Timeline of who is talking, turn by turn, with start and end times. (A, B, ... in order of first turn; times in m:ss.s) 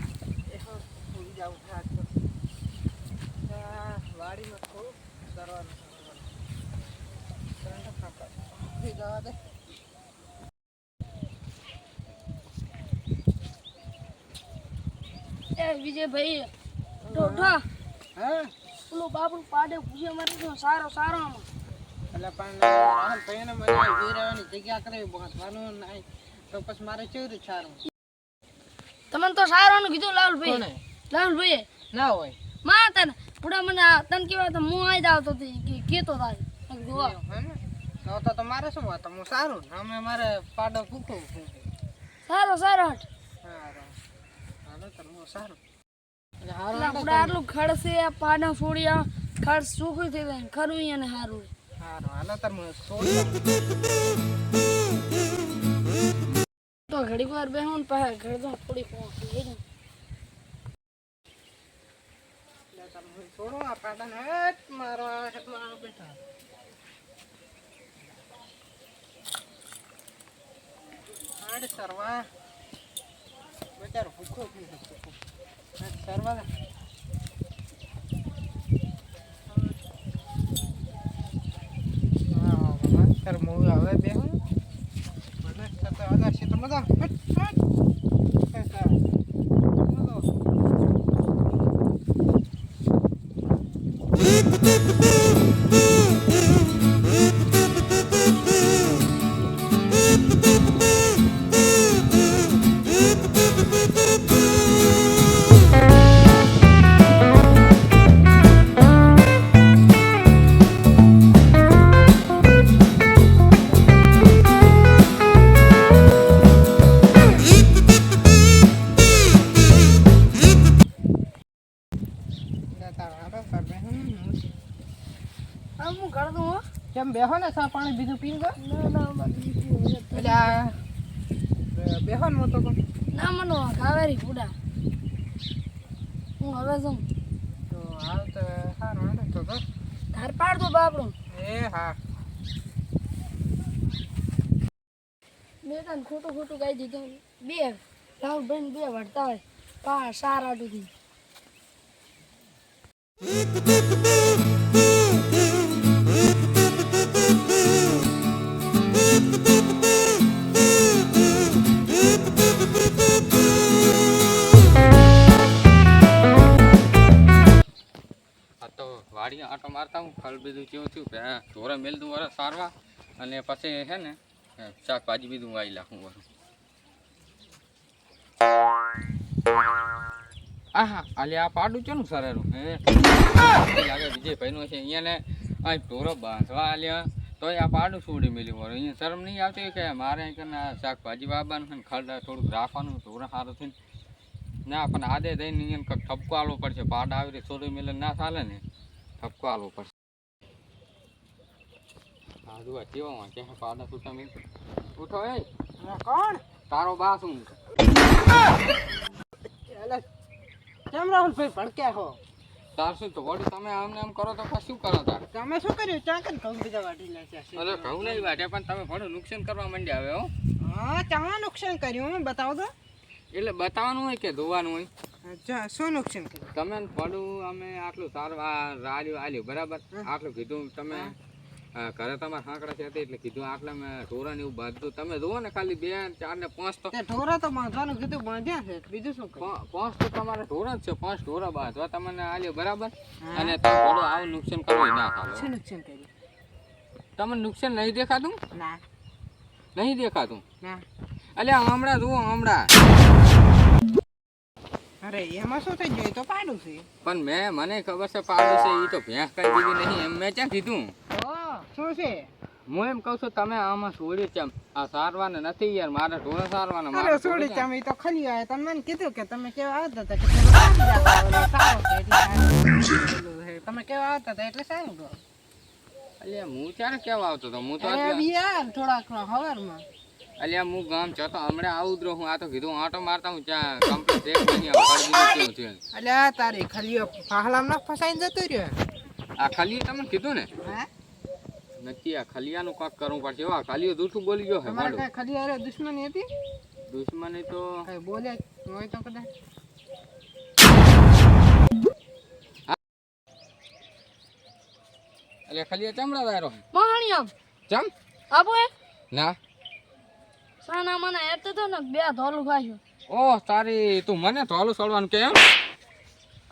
0:00.5-0:02.1 A
0:03.4-0:06.3 A
0:07.6-0:09.4 A
0:15.6-0:16.5 B
0:17.0-0:17.6 A
0:17.1-0:17.6 B
0:18.2-0:18.5 A
0:18.9-0:21.5 B
0:22.1-0:27.8 A
0:29.1-0:31.7 B
0:30.4-0:30.8 A
0:31.9-0:32.4 A
0:32.6-0:37.2 B
0:36.9-0:41.7 A
0:42.3-0:43.1 B
0:43.4-0:44.0 A
0:44.7-0:45.6 A
0:46.4-0:47.4 A
0:46.7-0:51.5 B
0:51.8-0:53.7 A
0:56.9-0:59.6 B
1:02.7-1:06.2 A
1:11.4-1:12.3 A
1:13.8-1:15.2 A
1:15.8-1:16.5 A
1:22.3-1:24.4 A
1:25.4-1:27.6 A
1:28.5-1:29.0 A
1:29.9-1:30.3 A
2:02.7-2:04.4 A
2:05.8-2:08.6 A
2:08.6-2:10.5 B
2:10.1-2:10.8 A
2:11.7-2:12.8 A
2:13.1-2:14.5 B
2:16.4-2:17.0 B
2:17.7-2:19.6 A
2:20.1-2:21.2 B
2:21.3-2:22.0 A
2:25.6-2:30.9 B
2:48.6-2:56.2 C
3:00.7-3:13.8 C
3:14.7-3:18.6 C
3:19.2-3:19.9 C
3:22.5-3:24.3 C
3:25.0-3:25.5 C
3:25.8-3:26.4 A
3:26.7-3:27.6 C
3:29.7-3:30.0 A
3:30.9-3:32.2 A
3:32.8-3:35.2 C
3:35.3-3:38.4 A
3:37.6-3:40.3 C
3:40.6-3:42.7 A
3:43.3-3:44.9 C
3:45.2-3:46.5 A
3:46.5-3:51.2 C
3:51.8-3:56.9 C
3:56.9-3:59.5 A
3:59.4-4:05.5 C
4:03.2-4:03.6 A
4:05.3-4:06.1 A
4:07.2-4:08.4 C
4:08.5-4:08.8 A
4:09.8-4:10.4 C
4:11.4-4:12.7 C
4:15.0-4:16.9 A
4:17.0-4:20.9 C
4:21.1-4:22.3 A
4:22.7-4:27.7 C
4:26.9-4:35.2 A
4:36.2-4:38.3 C
4:37.8-4:39.8 A
4:40.4-4:45.8 C
4:45.9-4:48.8 A
4:49.4-4:50.5 C
4:50.6-4:50.9 A
4:51.8-4:55.1 C
4:54.6-4:56.3 A
4:56.9-4:57.9 C
4:57.9-4:59.3 A
5:05.5-5:06.6 C
5:06.7-5:07.3 B
5:08.3-5:08.7 B
5:10.6-5:12.8 B
5:13.1-5:15.4 C